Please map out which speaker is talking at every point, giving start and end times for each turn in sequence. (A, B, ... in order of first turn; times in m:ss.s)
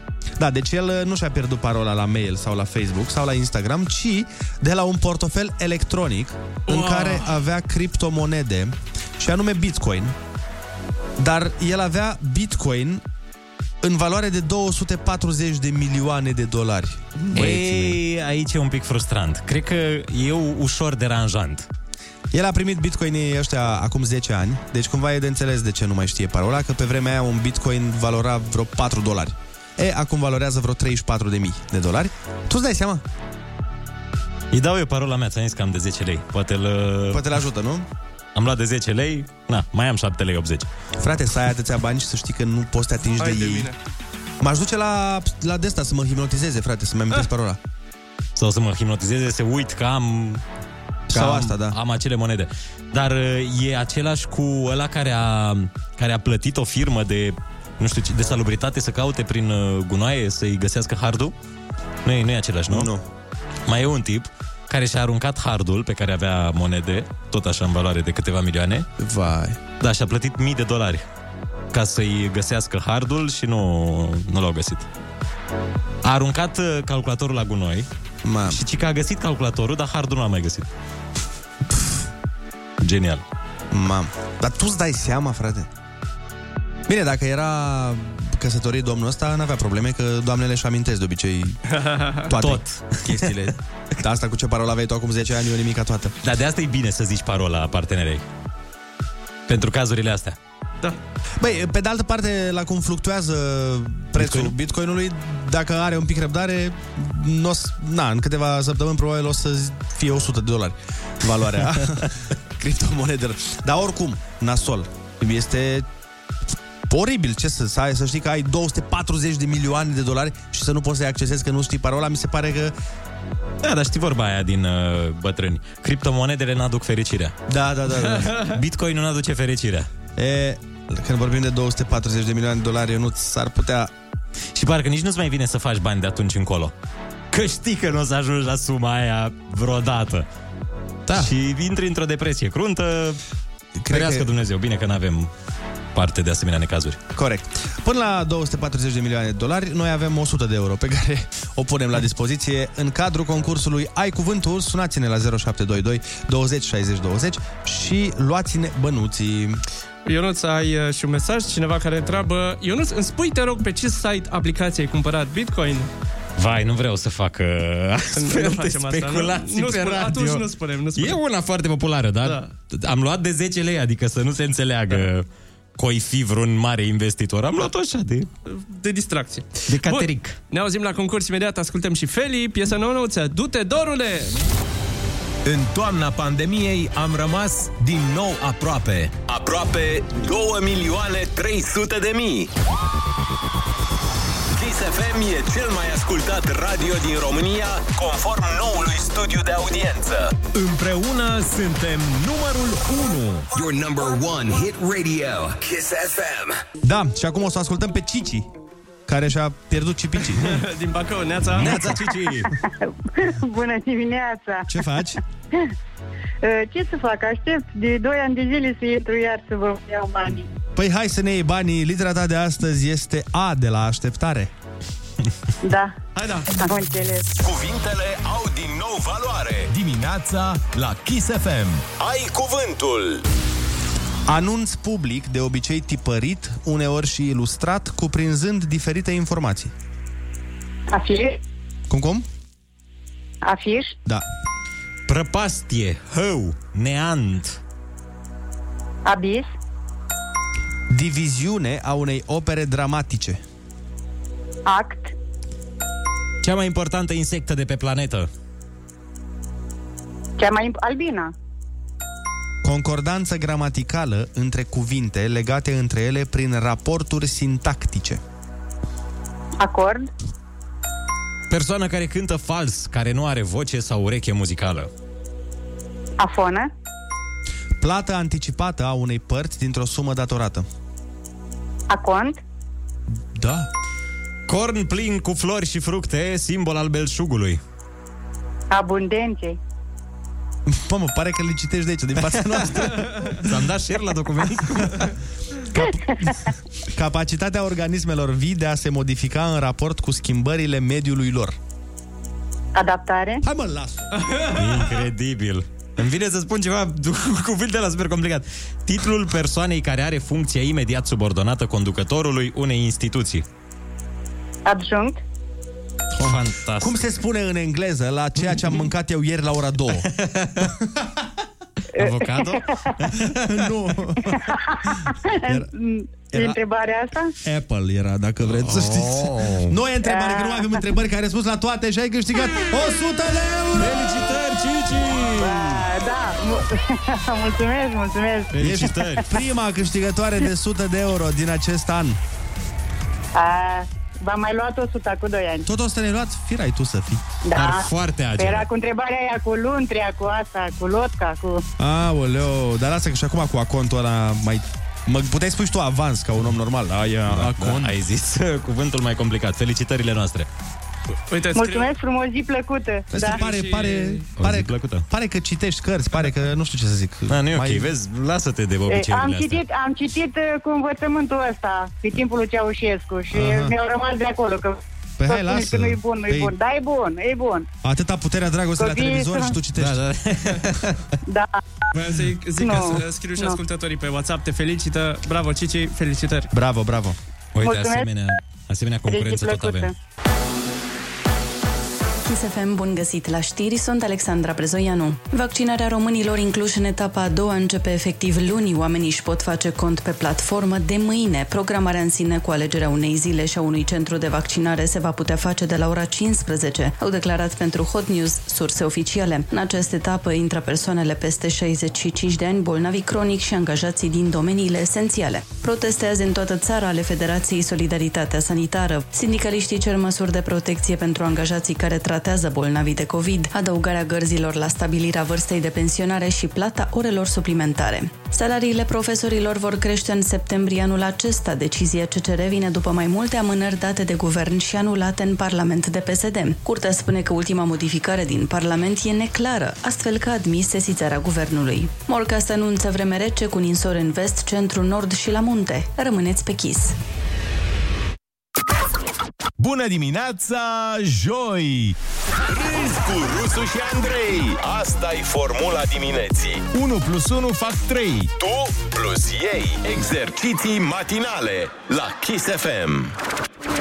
0:00.4-0:10.2 A
0:06.7-0:07.4 B
0:11.2-0:13.0 A
0:13.8-0:18.0 A
0:17.3-0:21.7 C
0:22.3-0:33.0 A
0:34.5-0:37.3 C
0:37.1-0:37.9 A
0:38.4-0:40.7 C
0:41.0-0:43.7 A
0:43.1-0:43.8 B
0:44.4-0:47.6 A
0:48.4-0:50.4 C
0:51.1-0:51.8 A
0:51.1-1:01.3 C
1:02.0-1:02.9 C
1:02.7-1:03.0 A
1:03.7-1:08.9 C
1:09.0-1:09.6 A
1:09.8-1:11.0 C
1:11.7-1:14.9 C
1:16.0-1:17.9 C
1:18.2-1:18.6 A
1:18.5-1:20.7 C
1:22.8-1:23.2 C
1:23.7-1:25.7 A
1:26.9-1:31.6 A
1:31.7-1:32.3 B
1:32.3-1:36.2 A
1:32.3-1:33.3 C
1:36.2-1:38.2 C
1:39.5-1:40.4 C
1:41.4-1:55.9 A
1:44.2-1:44.5 C
1:56.9-2:02.7 A
2:03.6-2:07.3 C
2:07.5-2:08.4 A
2:08.1-2:08.6 B
2:08.4-2:09.9 C
2:10.2-2:13.9 A
2:14.6-2:16.7 C
2:17.3-2:20.3 C
2:21.1-2:23.2 C
2:23.8-2:24.3 A
2:23.9-2:25.3 C
2:26.0-2:27.0 C
2:27.2-2:39.6 A
2:40.0-2:45.9 B
2:46.4-2:58.3 C
2:48.1-2:51.2 B
2:52.2-2:52.5 B
2:58.5-3:04.4 B
2:59.7-3:00.4 C
3:05.4-3:09.2 D
3:09.3-3:12.5 E
3:14.6-3:20.4 E
3:20.5-3:23.5 D
3:23.5-3:26.6 F
3:26.8-3:28.5 A
3:29.1-3:30.6 A
3:30.2-3:31.8 B
3:31.6-3:32.5 C
3:31.6-3:31.9 A
3:32.7-3:34.7 G
3:34.7-3:35.2 A
3:36.4-3:40.5 G
3:40.8-3:44.5 A
3:45.6-3:46.0 G
3:46.2-3:46.5 B
3:46.6-3:47.3 G
3:47.4-3:49.7 E
3:49.7-3:51.8 D
3:52.0-3:53.2 E
3:54.3-3:59.7 A
4:00.9-4:01.4 G
4:01.9-4:02.3 A
4:03.4-4:04.0 G
4:05.1-4:07.6 C
4:09.0-4:09.5 G
4:10.9-4:13.4 A
4:14.7-4:15.1 G
4:16.4-4:18.3 C
4:20.4-4:21.3 G
4:22.6-4:28.2 A
4:29.6-4:30.1 G
4:31.5-4:34.9 C
4:36.2-4:36.7 G
4:37.8-4:40.7 A
4:41.9-4:42.4 G
4:43.3-4:43.7 A
4:44.5-4:47.6 C
4:48.7-4:49.6 G
4:50.7-4:53.1 A
4:53.4-4:55.1 C
4:56.9-5:01.6 A
5:02.8-5:03.4 G
5:03.4-5:04.1 A
5:04.1-5:04.9 B
5:04.6-5:13.4 C
5:14.7-5:15.2 G
5:16.2-5:17.0 C
5:16.8-5:20.1 A
5:20.1-5:20.7 C
5:22.0-5:22.8 G
5:22.0-5:23.5 C
5:23.2-5:24.4 A
5:24.3-5:27.3 G
5:26.3-5:26.6 A
5:27.4-5:34.0 A
5:28.5-5:29.7 C
5:30.0-5:30.8 G
5:33.8-5:35.8 C
5:35.4-5:39.2 G
5:38.5-5:39.2 C
5:38.6-5:42.2 A
5:43.3-5:45.7 G
5:45.7-5:47.2 A
5:47.4-5:51.6 G
5:47.6-5:48.7 C
5:51.8-5:58.0 A
5:57.3-6:00.5 C
6:01.3-6:01.9 B
6:01.6-6:03.4 G
6:03.1-6:07.9 A
6:03.2-6:04.3 B
6:04.4-6:05.0 C
6:07.3-6:09.6 C
6:08.9-6:17.7 G
6:13.3-6:13.8 A
6:15.2-6:16.6 A
6:17.8-6:20.0 A
6:18.8-6:19.6 G
6:19.8-6:21.0 C
6:21.3-6:21.6 G
6:21.9-6:26.5 B
6:22.6-6:23.6 G
6:26.5-6:27.2 A
6:27.6-6:29.9 C
6:27.6-6:28.1 G
6:29.1-6:29.9 G
6:32.2-7:27.0 H
7:29.6-7:32.0 D
7:32.5-7:36.7 E
7:32.7-7:33.1 D
7:33.6-7:33.9 D
7:36.7-7:38.3 D
7:38.4-7:43.1 E